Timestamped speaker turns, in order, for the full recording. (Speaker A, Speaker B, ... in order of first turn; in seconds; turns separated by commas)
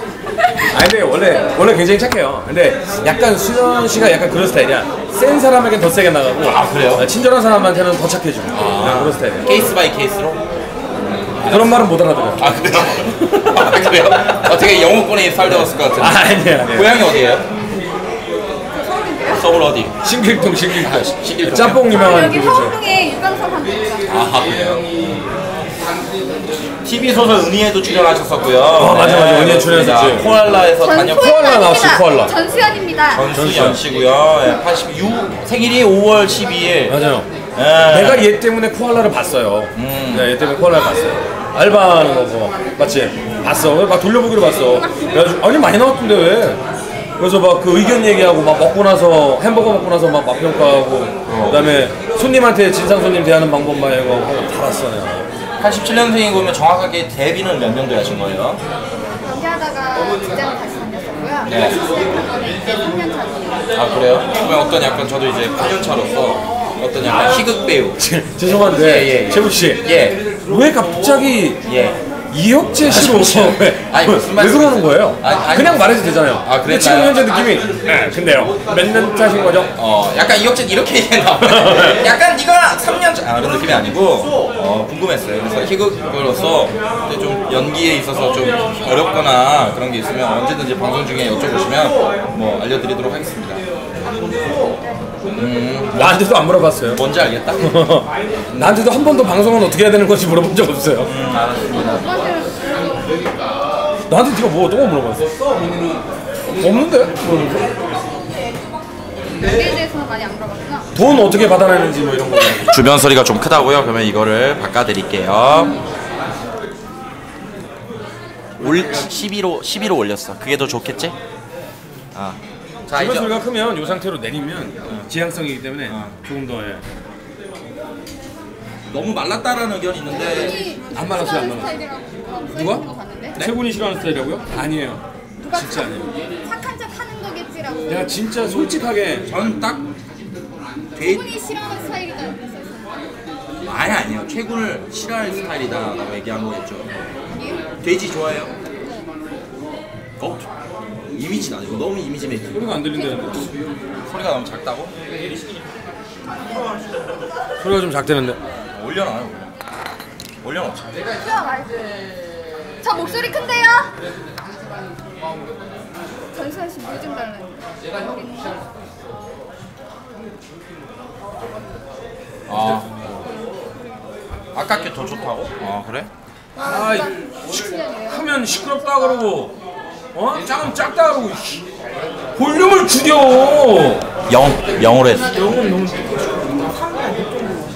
Speaker A: 0.7-9.5, Speaker B: 6.4-7.0, Speaker B: 8.5-10.4, Speaker B: 11.2-17.4, Speaker A: 11.4-12.5, Speaker A: 13.1-13.7, Speaker A: 16.0-16.9, Speaker C: 18.7-19.5, Speaker B: 19.4-19.9, Speaker A: 20.0-22.8, Speaker B: 20.7-22.0, Speaker C: 21.9-24.1, Speaker B: 24.1-24.9, Speaker B: 26.8-31.4, Speaker A: 28.8-30.3, Speaker C: 30.8-33.3, Speaker A: 31.1-32.3, Speaker B: 33.1-37.0, Speaker A: 33.3-33.8, Speaker A: 36.9-37.3, Speaker B: 37.5-38.3, Speaker A: 37.9-46.6, Speaker B: 39.7-40.3, Speaker A: 47.2-55.3, Speaker B: 51.3-51.8, Speaker B: 55.6-58.6, Speaker C: 59.2-63.7, Speaker B: 61.5-61.8, Speaker B: 63.7-70.2, Speaker A: 68.0-69.8, Speaker A: 70.5-71.6, Speaker B: 71.6-72.0, Speaker A: 72.3-79.7, Speaker B: 72.8-77.2, Speaker B: 79.8-93.6, Speaker A: 81.4-82.0, Speaker B: 95.3-96.2, Speaker A: 96.0-97.0, Speaker B: 96.9-97.8, Speaker A: 97.6-101.1, Speaker B: 98.5-98.8, Speaker B: 101.0-102.1, Speaker C: 101.7-103.2, Speaker A: 104.1-105.5, Speaker A: 106.5-107.7, Speaker C: 109.4-110.9, Speaker A: 110.9-112.7, Speaker B: 112.6-115.7, Speaker B: 118.6-121.2, Speaker A: 122.9-126.8, Speaker B: 122.9-123.3, Speaker B: 125.9-126.1, Speaker B: 128.9-130.6, Speaker C: 130.1-133.4, Speaker A: 130.9-131.8, Speaker A: 132.5-132.8, Speaker A: 133.4-136.1, Speaker C: 135.4-138.3, Speaker A: 137.9-139.3, Speaker B: 139.2-139.8, Speaker B: 140.9-141.3, Speaker C: 141.0-143.0, Speaker B: 143.6-146.9, Speaker C: 147.3-147.6, Speaker B: 147.8-148.5, Speaker B: 150.2-150.5, Speaker B: 151.1-152.9, Speaker A: 152.5-153.5, Speaker C: 153.2-153.5, Speaker B: 153.9-154.9, Speaker A: 157.6-158.4, Speaker B: 158.7-159.5, Speaker B: 160.4-161.0, Speaker C: 161.0-162.2, Speaker C: 162.8-163.9, Speaker C: 166.3-168.8, Speaker B: 172.5-173.0, Speaker B: 174.5-176.1, Speaker C: 176.6-178.8, Speaker A: 176.6-179.5, Speaker A: 180.1-181.6, Speaker A: 182.3-184.1, Speaker B: 184.3-187.2